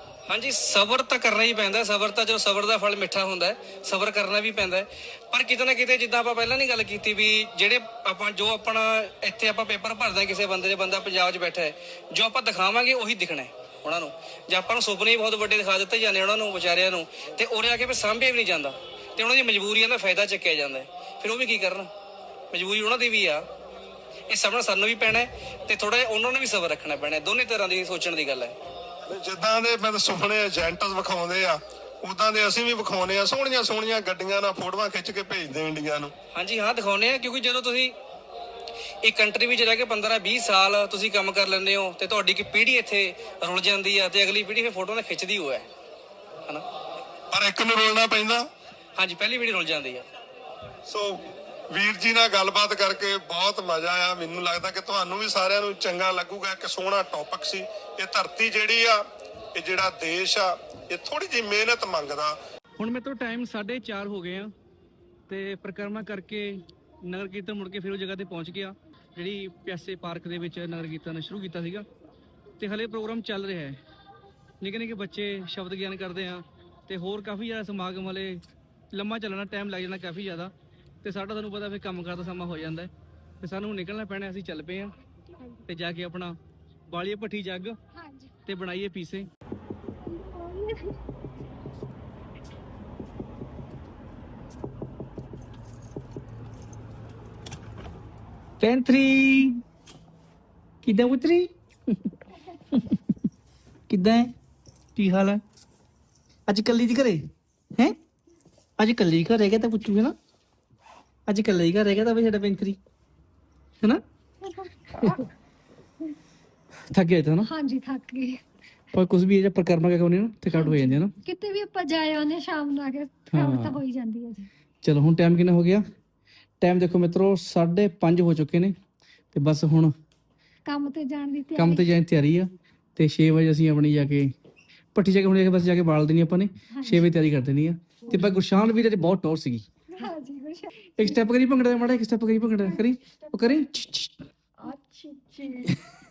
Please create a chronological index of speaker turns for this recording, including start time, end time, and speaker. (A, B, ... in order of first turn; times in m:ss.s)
0:00.3-0:21.9 A
0:22.5-0:23.4 A
0:24.3-0:28.5 A
0:29.0-0:36.1 B
0:36.3-0:38.0 A
0:39.0-0:45.7 A
0:47.3-0:48.5 B
0:49.0-0:50.0 A
0:50.8-1:02.4 B
1:02.8-1:04.5 A
1:05.3-1:11.8 A
1:12.6-1:13.8 A
1:14.6-1:18.4 A
1:18.9-1:20.5 A
1:21.0-1:24.9 A
1:25.3-1:25.6 C
1:25.7-1:26.4 A
1:26.9-1:27.8 A
1:27.9-1:28.3 C
1:28.4-1:29.3 A
1:30.0-1:31.0 C
1:38.6-1:39.6 A
1:40.8-1:42.2 A
1:42.7-1:43.0 A
1:43.9-1:44.3 A
1:45.0-1:45.4 A
1:46.5-1:48.0 A
1:48.8-1:50.1 A
1:51.3-1:52.8 A
1:54.4-1:55.3 C
1:56.9-1:57.5 A
1:57.4-1:58.4 C
1:58.9-2:01.1 A
2:00.5-2:04.5 C
2:03.3-2:03.8 A
2:04.8-2:05.8 A
2:06.6-2:08.8 A
2:09.3-2:09.9 A
2:10.6-2:11.9 C
2:11.6-2:14.3 A
2:14.9-2:19.6 A
2:16.7-2:17.1 C
2:18.1-2:18.3 C
2:19.9-2:21.2 C
2:21.0-2:24.2 A
2:22.6-2:23.6 C
2:24.6-2:25.8 C